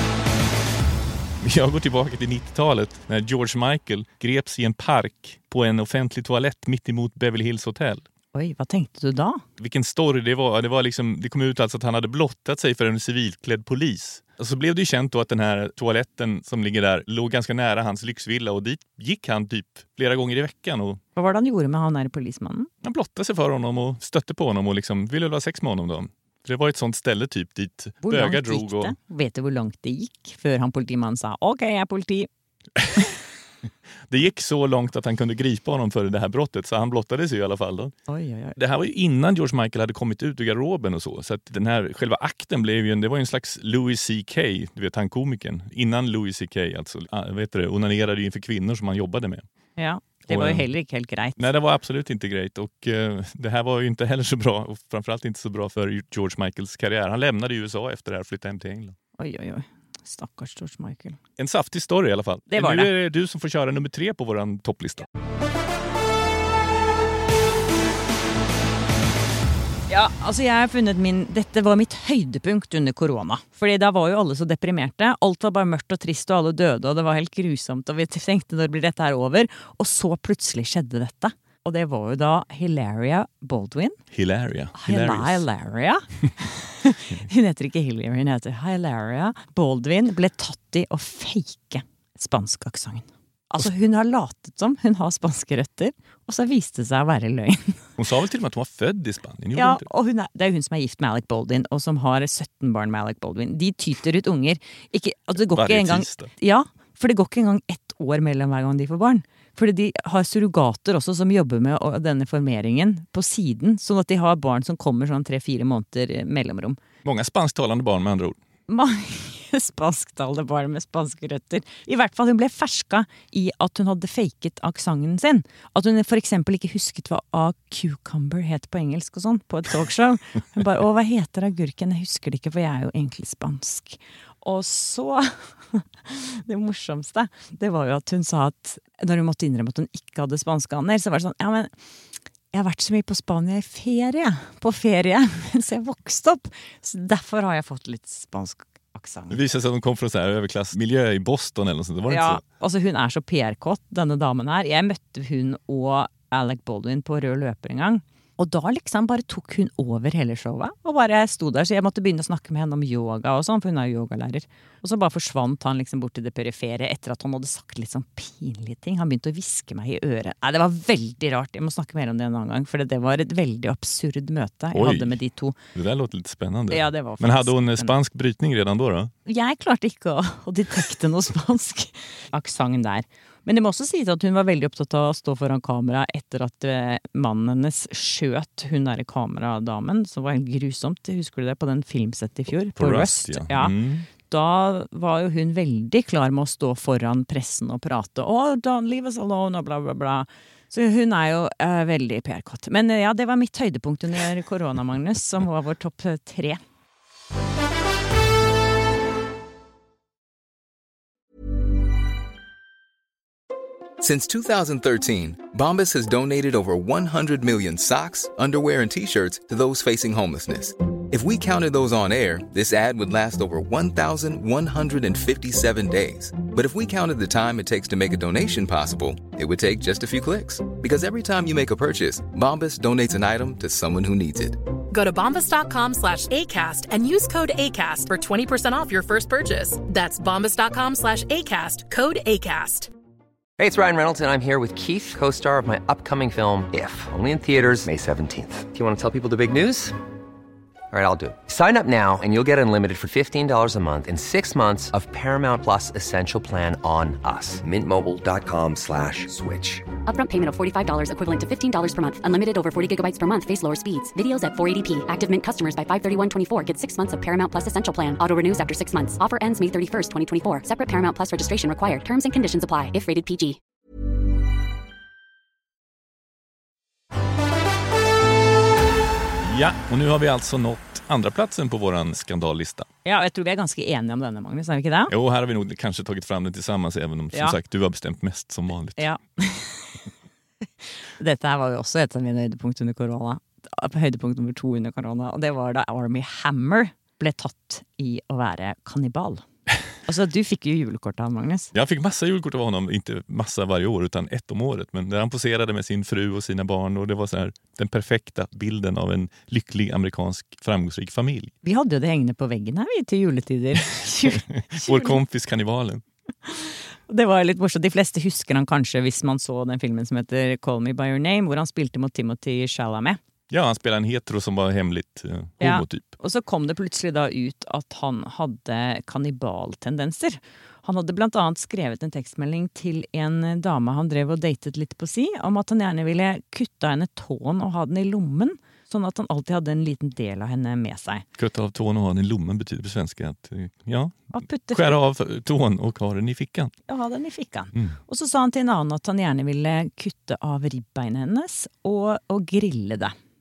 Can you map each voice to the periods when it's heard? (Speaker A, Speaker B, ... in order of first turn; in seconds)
Speaker A: 1.4-8.1, 9.6-21.0, 22.8-29.0, 34.1-37.9, 38.6-49.4, 50.2-50.7, 51.4-59.0, 61.4-65.1, 84.1-85.4, 98.0-99.9, 105.4-106.3, 117.0-118.4, 149.3-152.4, 174.7-175.2, 175.7-179.1, 192.7-194.1, 279.4-282.9, 285.1-289.1, 301.7-311.5, 314.0-316.0, 323.5-326.1, 341.4-346.7
Speaker B: 8.3-9.4, 21.2-22.7, 28.0-32.3, 38.1-38.6, 49.8-51.5, 59.2-61.2, 62.5-62.9, 69.9-84.0, 84.7-97.8, 99.5-116.8, 118.7-141.7, 142.5-149.4, 152.1-175.6, 176.7-178.0, 179.2-206.6, 283.0-285.1, 287.3-287.6, 289.0-290.1, 291.2-299.4, 300.0-301.7, 311.6-315.2, 316.4-323.2, 325.6-341.2, 344.3-345.0, 346.9-353.1
Speaker C: 214.0-234.7
Speaker D: 234.9-242.9
Speaker E: 243.6-249.9, 250.9-259.9
Speaker F: 260.1-273.6